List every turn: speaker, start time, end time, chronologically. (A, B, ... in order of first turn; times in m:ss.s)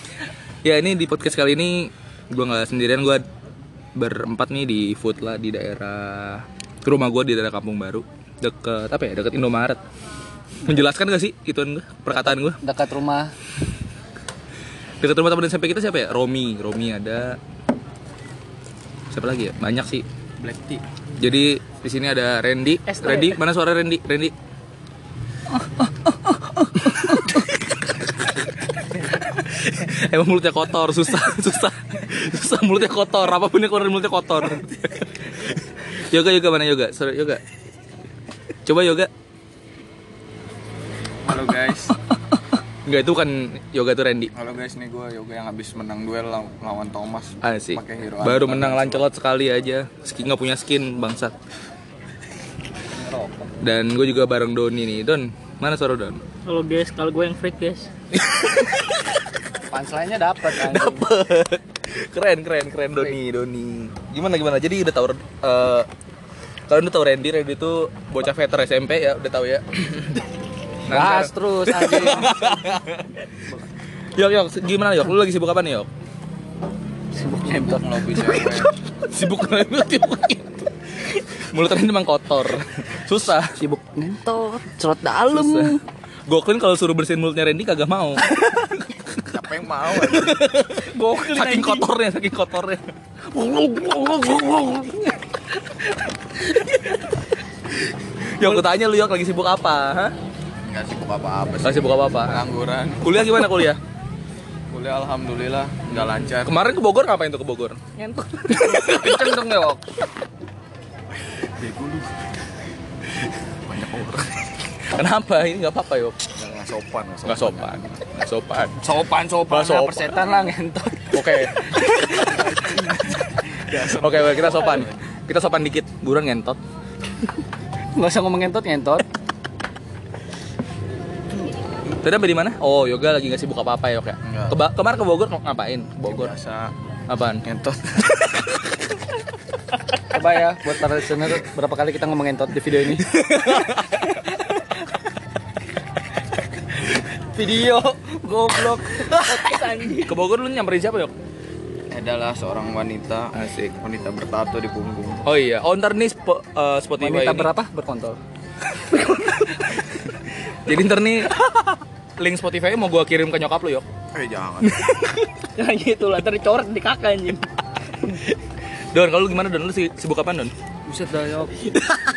0:00.6-0:03.2 A
0:04.0-0:09.8 A
0:10.6-0:12.6 A
0:12.4-0:13.3 B
0:15.0-0:17.4 A
0:19.1-0:20.0 A
0:20.4-0:20.8 B
0:21.2-0:24.3 A
0:22.9-0:23.4 C
0:26.5-0:27.9 A
0:29.0-0:37.4 A
0:38.6-0:39.1 A
0:41.2-0:42.0 D
0:42.8-0:44.3 A
0:44.3-0:49.1 D
0:47.4-0:51.4 A
0:53.0-0:53.5 B
0:53.6-0:56.2 A
0:56.4-0:57.9 C
0:58.1-0:59.1 A
0:59.7-1:01.1 B
1:00.5-1:05.9 A
1:06.7-1:10.2 A
1:10.9-1:13.3 A
1:10.9-1:12.7 B
1:14.2-1:15.9 A
1:17.1-1:18.5 B
1:17.4-1:18.7 D
1:19.0-1:23.6 A
1:23.6-1:25.8 B
1:25.3-1:29.3 A
1:29.2-1:30.4 D
1:29.9-1:35.2 A
1:30.9-1:31.9 C
1:36.5-1:37.0 A
1:38.2-1:40.1 A
1:40.6-1:43.2 D
1:41.6-1:42.4 A
1:43.0-1:43.8 A
1:44.7-1:46.6 D
1:46.0-1:49.4 A
1:48.5-1:49.8 B
1:51.6-1:52.1 D
1:53.7-1:54.4 D
1:54.9-1:56.2 A
1:56.3-1:58.1 D
1:57.2-1:58.8 A
1:58.8-2:03.2 B
1:59.5-2:00.2 A
2:01.1-2:02.4 A
2:03.6-2:05.0 D
2:03.8-2:06.6 A
2:08.0-2:09.1 B
2:11.9-2:16.3 A
2:14.2-2:14.6 D
2:16.0-2:16.7 D
2:17.1-2:17.4 A
2:17.4-2:18.3 D
2:20.1-2:23.2 B
2:23.0-2:24.2 A
2:27.2-2:29.1 B
2:29.0-2:31.1 A
2:29.1-2:30.2 C
2:31.9-2:35.2 D
2:33.3-2:33.7 A
2:35.2-2:37.5 A
2:37.0-2:38.2 B
2:39.0-2:39.5 C
2:40.5-2:41.4 A
2:42.2-2:43.9 A
2:44.1-2:44.8 D
2:44.6-2:45.3 A
2:45.6-2:47.4 C
2:48.9-2:50.5 A
2:50.9-2:51.8 B